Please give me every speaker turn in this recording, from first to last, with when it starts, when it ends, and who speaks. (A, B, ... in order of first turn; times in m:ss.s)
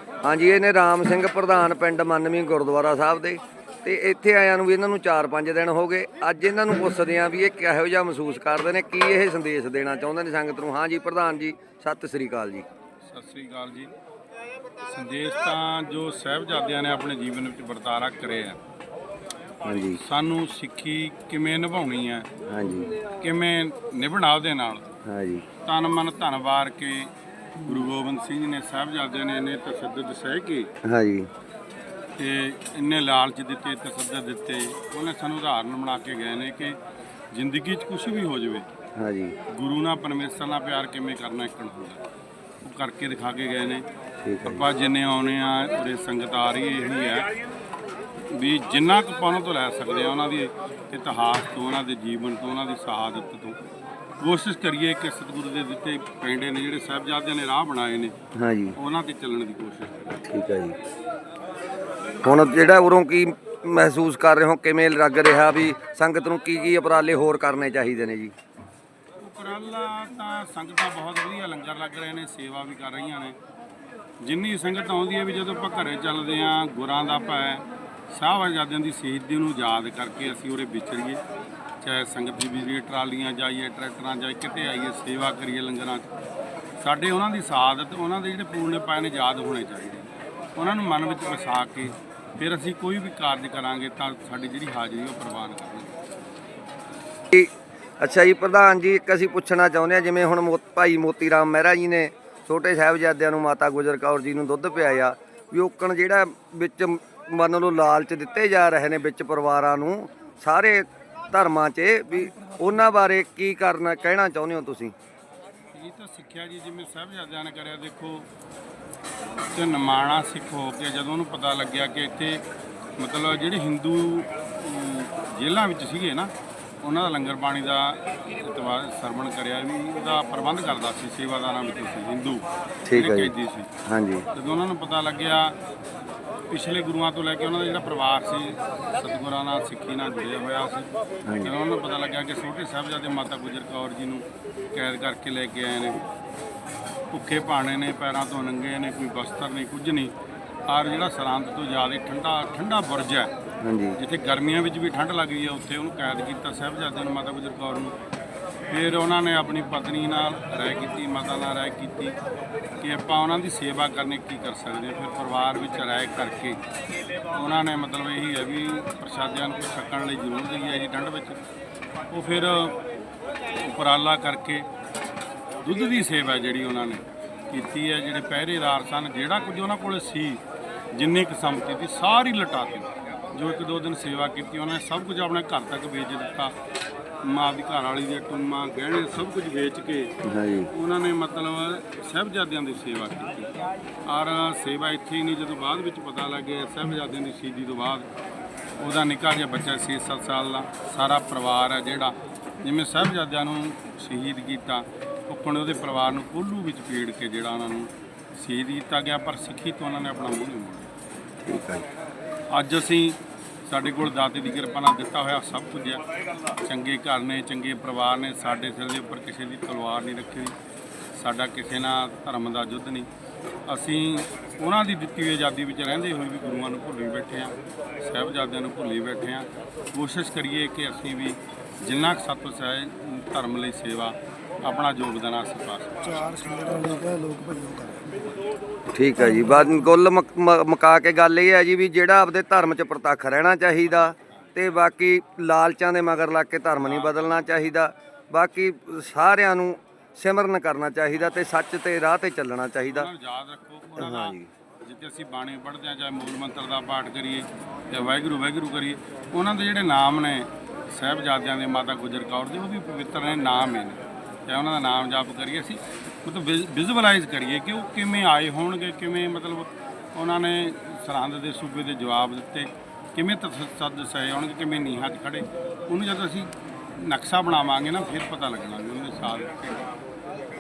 0:00.2-0:12.7 A
0:13.0-0:13.9 B
0:14.9-0:18.6 B
0:19.6-0:20.0 A
0:20.0-0:22.3 B
0:22.5-0:22.9 A
0:23.0-0:24.9 B
0:25.1-0:25.5 A
0:25.6-0:30.7 B
0:30.9-0:31.3 A
0:32.2-0:36.8 B
0:37.3-0:38.7 B
0:39.0-0:39.4 A
0:39.5-0:42.0 B
0:42.6-0:43.8 B
0:44.2-0:44.7 A
0:44.4-0:47.3 B
0:48.3-0:53.6 B
0:54.2-0:58.1 B
0:58.4-0:58.8 A
0:58.8-1:00.2 B
1:00.3-1:00.8 A
1:02.2-1:08.3 A
1:09.2-1:13.4 B
1:14.2-1:21.2 B
1:21.8-1:26.1 B
1:26.8-1:36.0 B
1:37.3-1:54.9 A
1:55.7-1:58.3 B
1:59.4-2:02.4 B
2:03.0-2:06.3 B
2:06.8-2:13.7 B
2:12.9-2:13.3 A
2:13.9-2:14.3 A
2:14.3-2:15.6 B
2:16.5-2:20.9 B
2:21.3-2:21.5 A
2:21.4-2:26.0 B
2:27.1-2:30.1 B
2:30.7-2:33.3 B
2:33.6-2:34.0 A
2:34.0-2:38.0 B
2:38.7-2:42.2 B
2:42.8-2:46.6 B
2:47.3-2:51.4 B
2:52.1-2:52.8 B
2:53.6-2:54.7 B
2:55.6-3:00.4 B
3:00.9-3:06.5 B
3:07.2-3:10.1 B
3:10.3-3:10.7 A
3:10.7-3:13.5 B
3:14.1-3:18.1 B
3:18.8-3:30.9 B
3:31.4-3:31.9 A
3:32.5-3:36.0 B
3:36.6-3:40.5 B
3:41.2-3:43.1 B
3:43.7-3:56.2 B
3:56.1-3:58.3 C
3:58.9-4:13.1 A
3:59.4-3:59.7 C
4:04.3-4:04.6 B
4:06.8-4:07.5 B
4:12.9-4:39.8 B
4:14.0-4:14.5 A